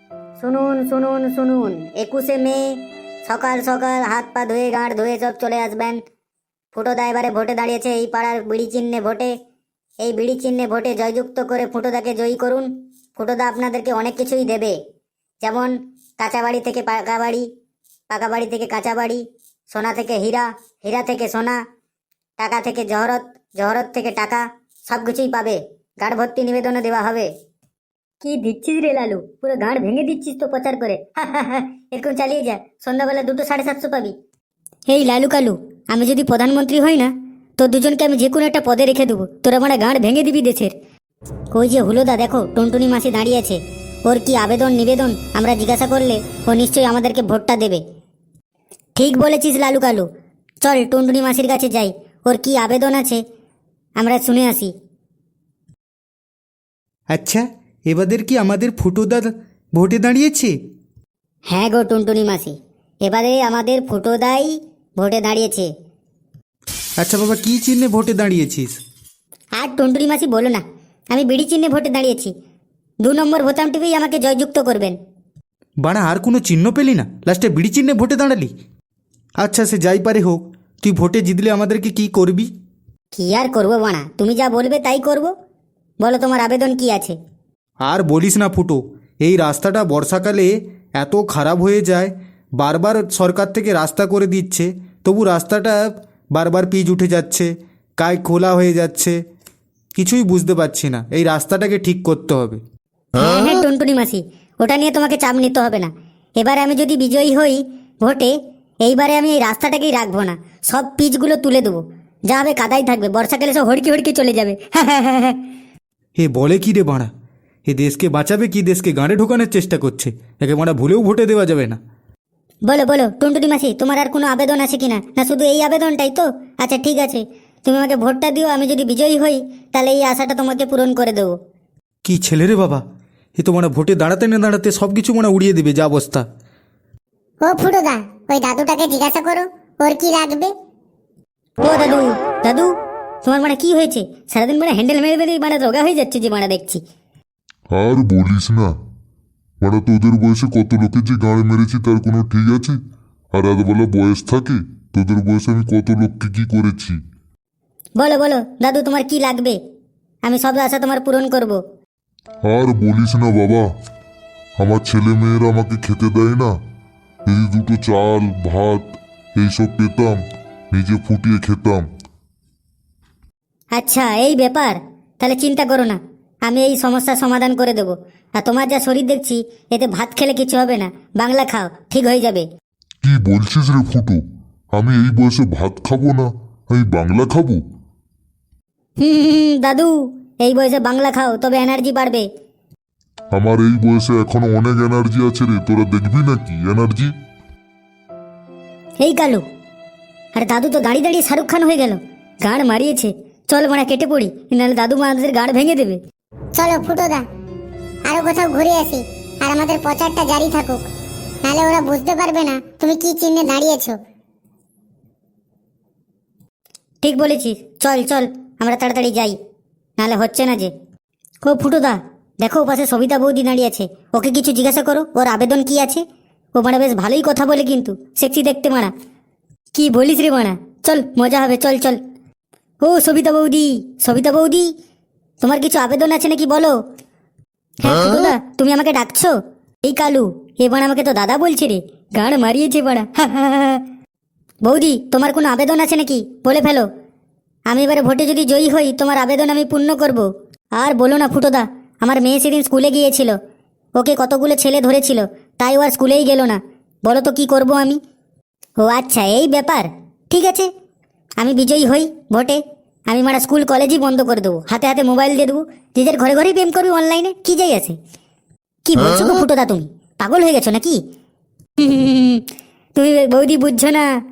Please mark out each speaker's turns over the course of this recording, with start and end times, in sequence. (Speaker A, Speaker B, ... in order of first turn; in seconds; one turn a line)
Speaker A: 0.4-6.0
Speaker A: 6.7-9.3
Speaker A: 10.0-14.8
Speaker A: 15.4-17.5
Speaker A: 18.1-21.6
Speaker A: 22.4-27.3
Speaker A: 28.2-34.1
Speaker A: 34.9-40.7
Speaker A: 41.5-47.8
Speaker A: 49.0-50.1
Speaker A: 50.6-53.2
Speaker A: 54.0-54.7
Speaker B: 57.1-60.6
Speaker A: 61.5-65.7
Speaker B: 67.0-68.8
Speaker A: 69.6-70.6
Speaker A: 71.1-72.3
Speaker A: 73.0-75.0
Speaker B: 75.8-78.5
Speaker B: 79.4-82.5
Speaker A: 83.1-85.3
Speaker A: 86.0-87.2
Speaker B: 87.8-99.2
Speaker B: 100.0-102.6
Speaker A: 103.2-115.4
Speaker B: 116.2-117.1
Speaker B: 117.7-121.8
Speaker A: 122.7-131.3
Speaker B: 132.1-132.8
Speaker B: 133.4-136.3
Speaker C: 137.4-140.5
Speaker A: 141.6-142.7
Speaker A: 143.2-146.8
Speaker D: 147.7-148.7
Speaker D: 149.6-152.8
Speaker D: 153.3-157.0
Speaker A: 158.0-159.6
Speaker A: 160.2-161.6
Speaker D: 162.4-163.7
Speaker D: 164.6-166.6
Speaker D: 167.3-170.2
Speaker D: 170.7-171.9
Speaker A: 173.8-182.5
Speaker D: 183.0-184.2
Speaker D: 184.7-187.6
Speaker A: 189.0-192.3
Speaker D: 193.3-197.1
Speaker A: 199.0-199.4
Speaker A: 200.3-206.0
Speaker C: 206.6-207.2
Speaker C: 208.1-210.9
Speaker C: 211.4-214.0
Speaker A: 217.0-219.4
Speaker A: 220.0-220.7
Speaker A: 221.4-226.0
Speaker A: 226.6-228.9
Speaker A: 229.7-232.0
Speaker A: 232.8-234.7
Speaker A: 235.4-236.8
Speaker A: 237.8-239.3
Speaker A: 239.8-243.8
Speaker A: 244.7-246.9
Speaker A: 247.7-250.3
Speaker A: 250.8-253.4
Speaker A: 254.0-258.0
Speaker A: 258.8-260.7
Speaker A: 261.4-268.0
Speaker A: 268.9-271.0
Speaker A: 271.8-272.4
Speaker A: 273.0-274.1